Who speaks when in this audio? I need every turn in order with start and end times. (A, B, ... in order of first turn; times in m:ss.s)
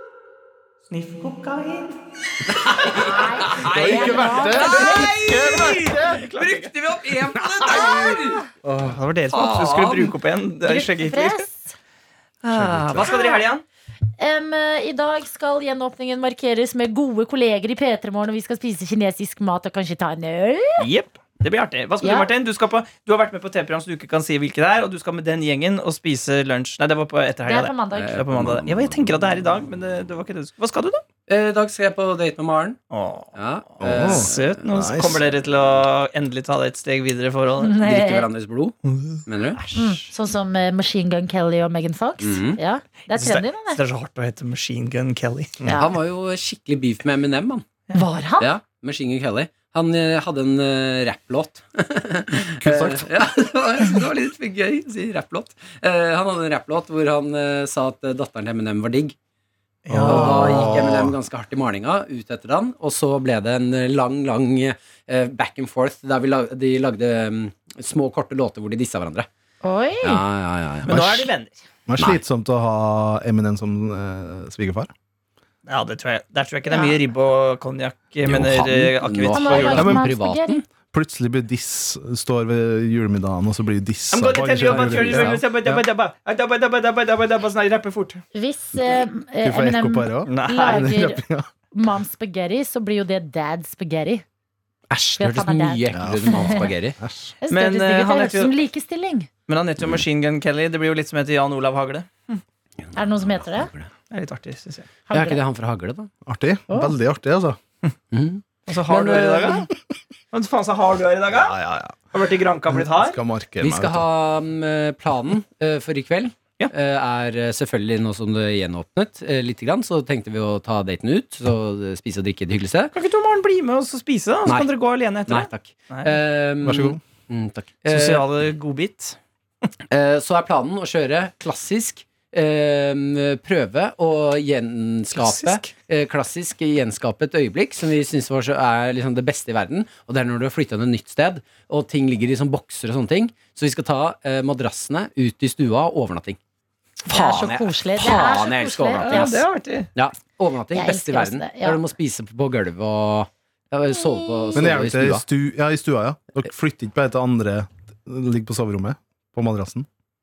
0:00.9-0:03.1 A
0:02.6-0:08.4 B
0:02.8-0:05.2 C
0:03.6-0:06.2 D
0:04.8-0:06.7 A
0:07.5-0:09.0 D
0:07.7-0:08.4 C
0:08.8-0:11.4 A
0:09.3-0:10.1 B
0:10.6-0:11.8 C
0:12.4-0:13.6 A
0:12.5-0:13.1 D
0:13.0-0:13.4 C
0:14.2-0:20.9 C
0:20.8-0:31.0 A
0:22.0-0:22.3 C
0:27.4-0:28.1 C
0:27.9-0:28.9 B
0:31.3-0:32.8 B
0:32.9-0:37.9 A
0:33.3-0:34.9 B
0:33.8-0:35.2 D
0:37.6-0:38.3 C
0:37.8-0:39.6 B
0:38.9-0:40.0 A
0:39.7-0:43.8 C
0:42.2-0:42.6 B
0:43.1-0:45.7 A
0:45.7-0:45.9 C
0:45.7-0:47.6 B
0:47.9-0:48.5 C
0:48.4-0:59.1 B
0:52.6-0:53.2 D
0:59.8-1:00.7 A
0:59.9-1:01.1 D
1:00.0-1:09.3 B
1:09.6-1:10.2 C
1:10.0-1:11.0 B
1:10.8-1:11.6 A
1:10.9-1:11.3 D
1:11.9-1:14.9 D
1:15.6-1:19.9 A
1:16.7-1:17.0 C
1:18.2-1:20.6 B
1:19.3-1:20.6 C
1:19.7-1:20.1 D
1:20.9-1:25.8 D
1:24.1-1:28.2 A
1:24.6-1:25.4 B
1:28.3-1:34.2 C
1:28.9-1:31.5 D
1:30.3-1:30.9 A
1:34.9-1:37.0 B
1:35.2-1:36.7 C
1:35.9-1:36.4 D
1:37.0-1:37.3 D
1:37.4-1:39.3 C
1:37.5-1:38.5 A
1:39.5-1:42.4 A
1:42.8-1:43.9 B
1:42.9-1:43.7 C
1:44.1-1:44.9 A
1:45.1-1:45.4 C
1:45.1-1:46.1 B
1:46.2-1:47.6 D
1:46.7-1:46.9 C
1:48.1-1:49.6 B
1:48.7-1:49.7 A
1:50.3-1:51.6 A
1:51.3-1:52.1 D
1:52.1-1:53.2 A
1:52.7-1:54.0 D
1:53.6-2:02.9 B
2:02.9-2:06.2 A
2:04.4-2:08.2 B
2:06.6-2:07.0 D
2:07.8-2:09.2 A
2:09.9-2:26.4 B
2:15.1-2:15.7 A
2:27.0-2:29.4 B
2:27.0-2:29.4 C
2:29.0-2:29.9 A
2:29.9-2:35.2 B
2:30.7-2:31.8 C
2:34.5-2:39.8 D